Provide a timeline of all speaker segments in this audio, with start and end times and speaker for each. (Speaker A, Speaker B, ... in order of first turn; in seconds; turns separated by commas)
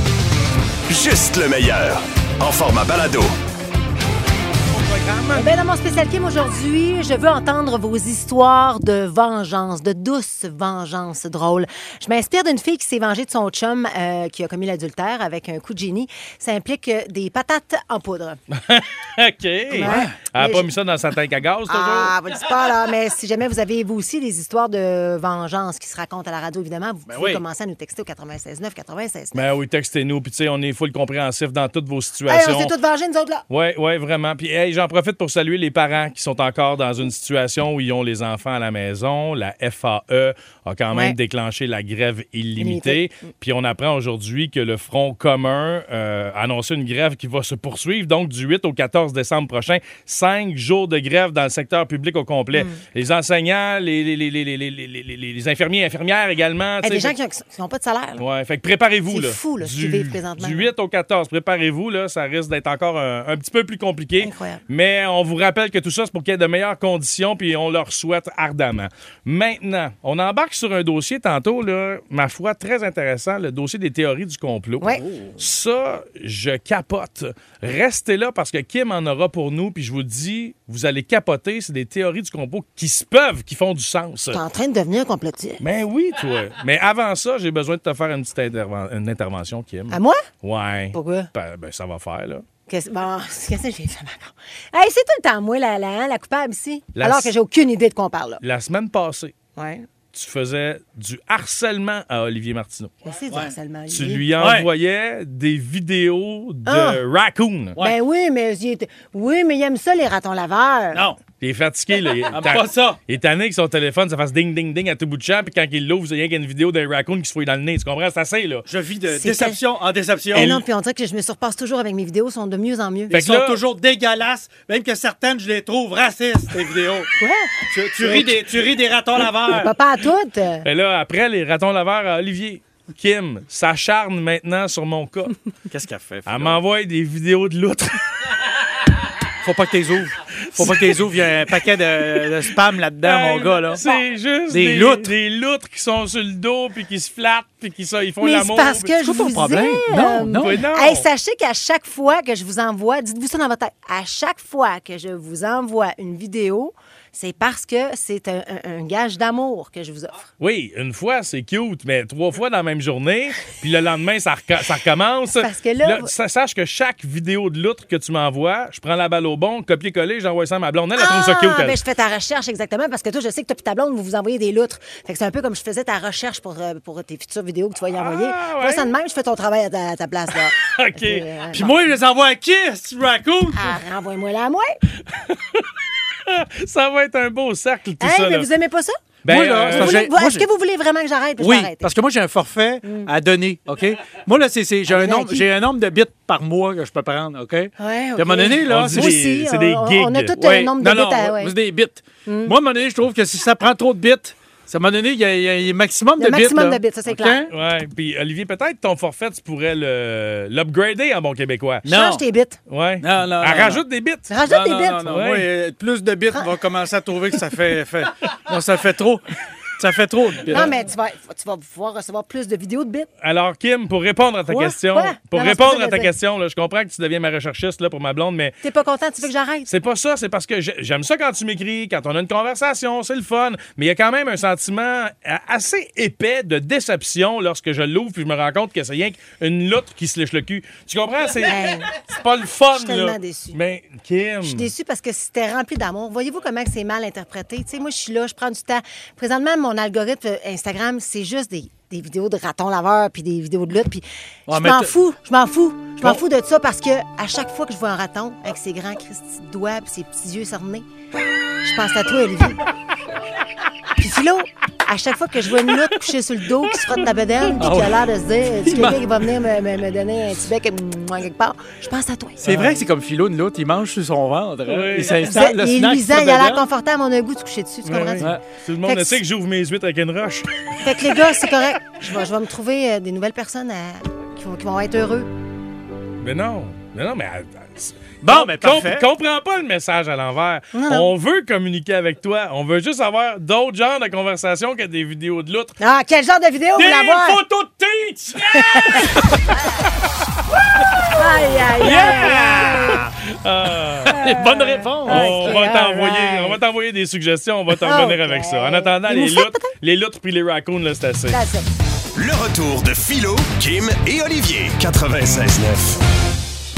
Speaker A: 0.9-3.4, Speaker B: 4.7-5.3, Speaker C: 5.3-18.4, Speaker B: 18.5-22.1, Speaker C: 19.7-20.7, Speaker D: 19.8-20.2, Speaker C: 21.7-29.4, Speaker D: 27.1-27.4, Speaker B: 29.3-32.7, Speaker C: 32.3-33.4, Speaker B: 33.5-57.1, Speaker C: 40.9-41.2, Speaker C: 42.6-43.0, Speaker C: 52.5-52.8, Speaker C: 56.8-58.2, Speaker B: 58.2-84.4, Speaker C: 59.1-60.7, Speaker C: 64.2-64.6, Speaker D: 75.0-75.3, Speaker C: 84.3-85.6, Speaker B: 85.6-92.4, Speaker C: 89.9-90.2, Speaker C: 90.9-91.3, Speaker C: 92.7-98.4, Speaker B: 97.0-97.3, Speaker B: 98.4-99.3, Speaker C: 99.6-99.8, Speaker B: 100.1-102.9, Speaker C: 103.0-104.2, Speaker B: 103.9-107.8, Speaker D: 104.4-104.7, Speaker C: 106.7-107.0, Speaker C: 107.8-111.0, Speaker D: 110.9-111.2, Speaker B: 111.4-118.7, Speaker D: 112.3-113.0, Speaker D: 118.7-120.6, Speaker C: 119.1-119.6, Speaker C: 120.3-123.1, Speaker B: 123.1-123.6, Speaker D: 123.1-127.1, Speaker C: 127.2-128.4, Speaker D: 127.7-129.7, Speaker C: 129.5-130.7, Speaker B: 130.7-135.3, Speaker D: 135.7-136.6, Speaker B: 136.3-138.0, Speaker D: 139.4-143.8, Speaker B: 140.6-148.9, Speaker D: 144.5-145.1, Speaker C: 148.2-160.2, Speaker D: 148.9-150.6, Speaker B: 150.4-151.1, Speaker B: 160.4-171.8, Speaker C: 165.4-166.1, Speaker C: 171.0-181.7, Speaker B: 178.0-178.9, Speaker B: 180.6-181.2, Speaker D: 181.5-183.8, Speaker C: 183.5-184.8, Speaker B: 185.1-185.7, Speaker B: 186.3-188.5, Speaker C: 188.0-189.0, Speaker B: 189.2-190.0, Speaker D: 189.3-190.5, Speaker C: 189.7-191.9, Speaker D: 191.4-199.1, Speaker C: 192.8-193.1, Speaker C: 194.9-195.5, Speaker C: 197.8-201.5, Speaker B: 198.7-200.4, Speaker D: 200.4-207.5, Speaker C: 202.3-202.5, Speaker C: 206.2-207.5, Speaker B: 207.5-211.9, Speaker D: 211.9-212.2, Speaker C: 211.9-212.6, Speaker B: 212.7-214.3, Speaker D: 213.0-213.8, Speaker C: 214.3-215.1, Speaker D: 214.4-220.8, Speaker B: 215.1-215.5, Speaker C: 220.5-223.1, Speaker B: 223.2-228.6, Speaker C: 224.5-226.1, Speaker C: 228.6-229.7, Speaker B: 229.7-244.7, Speaker C: 241.4-241.9, Speaker C: 242.7-243.6, Speaker C: 244.4-260.9, Speaker D: 254.5-254.9, Speaker C: 261.6-262.6, Speaker C: 264.0-272.4, Speaker D: 267.6-268.1, Speaker D: 268.6-269.1, Speaker D: 272.4-276.6, Speaker B: 272.5-272.8, Speaker B: 274.7-275.2, Speaker C: 275.2-278.3, Speaker B: 277.9-280.5, Speaker C: 278.8-279.2, Speaker C: 280.8-285.3, Speaker B: 286.2-295.8, Speaker D: 288.2-289.0, Speaker C: 290.7-291.1, Speaker C: 295.8-297.4, Speaker D: 296.8-299.4, Speaker C: 298.5-299.1, Speaker D: 300.9-301.2, Speaker C: 301.1-303.0, Speaker D: 301.7-303.1, Speaker B: 303.3-304.1, Speaker D: 304.1-305.5, Speaker C: 304.1-306.6, Speaker B: 305.1-311.4, Speaker C: 307.8-309.7, Speaker C: 311.3-311.7, Speaker A: 312.1-316.0